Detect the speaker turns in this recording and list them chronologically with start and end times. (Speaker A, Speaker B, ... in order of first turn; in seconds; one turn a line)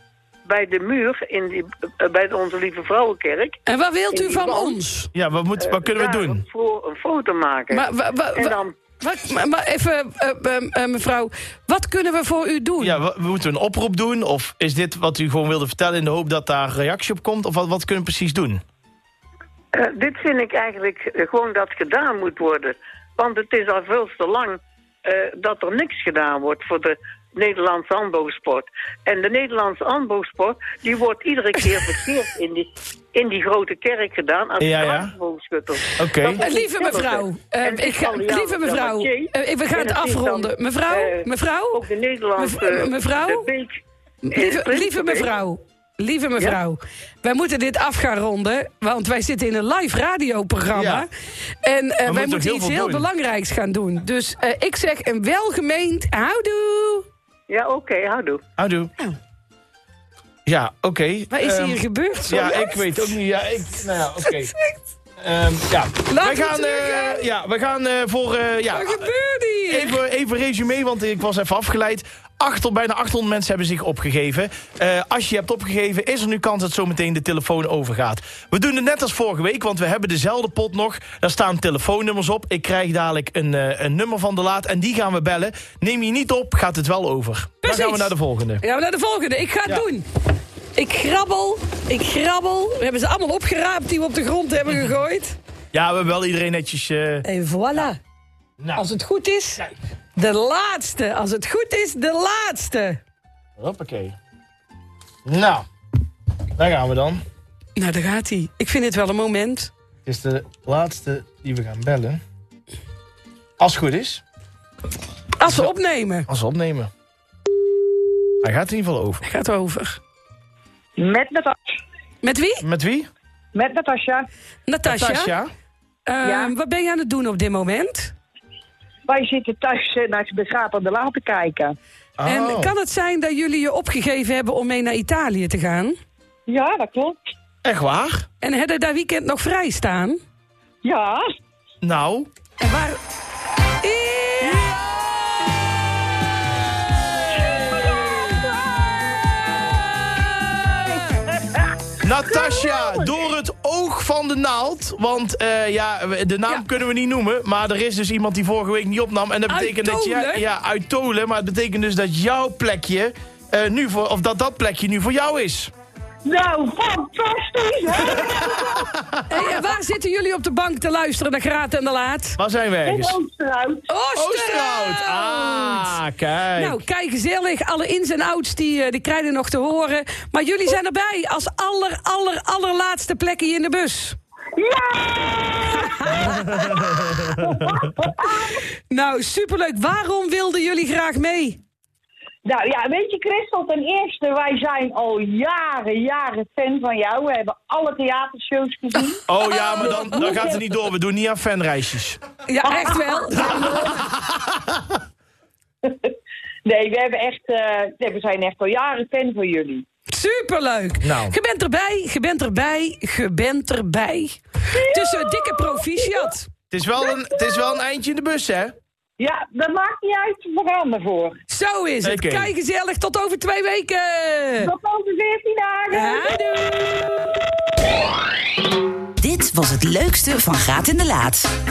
Speaker A: 0.5-3.6
Speaker B: 3.7-5.1
Speaker A: 4.1-4.7
Speaker C: 5.1-6.4
Speaker A: 5.6-7.8
Speaker B: 7.7-13.0
Speaker A: 8.3-8.7
Speaker C: 12.8-18.6
Speaker A: 19.8-41.2
Speaker B: 31.6-31.9
Speaker C: 34.6-35.1
Speaker C: 36.0-36.4
Speaker B: 36.4-41.8
Speaker A: 41.7-45.3
Speaker B: 42.4-43.5
Speaker B: 44.2-51.1
Speaker C: 50.7-51.1
Speaker B: 51.6-57.0
Speaker C: 52.0-53.1
Speaker A: 57.5-58.4
Speaker C: 58.6-58.9
Speaker C: 60.5-64.5
Speaker B: 61.3-63.1
Speaker B: 64.2-64.8
Speaker C: 65.2-69.1
Speaker B: 66.1-67.3
Speaker B: 68.7-70.0
Speaker C: 69.7-88.6
Speaker B: 87.6-90.0
Speaker B: 90.8-95.4
Speaker C: 95.7-97.9
Speaker B: 97.2-98.0
Speaker B: 98.8-103.0
Speaker C: 103.6-104.2
Speaker C: 105.3-105.6
Speaker C: 106.6-107.2
Speaker B: 107.8-109.7
Speaker C: 110.1-112.2
Speaker C: 113.6-114.2
Speaker B: 115.4-116.3
Speaker C: 115.4-115.7
Speaker C: 116.3-116.9
Speaker C: 118.4-119.2
Speaker B: 119.2-120.0
Speaker D: 121.0-121.8
Speaker B: 122.2-122.6
Speaker C: 122.6-123.1
Speaker D: 123.5-124.3
Speaker B: 124.7-125.3
Speaker C: 124.8-125.5
Speaker B: 126.1-128.1
Speaker D: 126.2-126.5
Speaker D: 129.1-131.8
Speaker C: 132.2-132.7
Speaker B: 132.2-135.9
Speaker D: 136.5-137.2
Speaker C: 137.6-138.2
Speaker B: 138.4-140.2
Speaker D: 140.8-141.2
Speaker C: 141.8-142.3
Speaker B: 142.6-143.0
Speaker B: 143.8-144.7
Speaker D: 147.7-148.8
Speaker D: 150.9-151.7
Speaker C: 152.0-165.7
Speaker B: 159.5-160.4
Speaker D: 166.2-168.9
Speaker B: 169.3-172.4
Speaker C: 172.4-173.2
Speaker D: 172.8-173.9
Speaker B: 173.9-175.9
Speaker C: 174.2-176.8
Speaker B: 176.6-184.2
Speaker D: 184.6-188.6
Speaker B: 185.9-186.2
Speaker C: 186.2-187.5
Speaker B: 188.9-191.6
Speaker D: 192.4-199.2
Speaker C: 199.3-202.2
Speaker B: 199.5-200.4
Speaker D: 199.8-200.5
Speaker B: 202.5-203.5
Speaker D: 202.6-204.0
Speaker D: 206.7-209.9
Speaker B: 210.1-216.5
Speaker C: 211.0-211.3
Speaker D: 214.7-216.3
Speaker C: 216.7-218.7
Speaker D: 217.0-217.7
Speaker D: 219.2-221.4
Speaker B: 221.5-224.7
Speaker C: 222.0-222.5
Speaker D: 224.6-227.1
Speaker B: 225.9-226.9
Speaker E: 229.2-231.5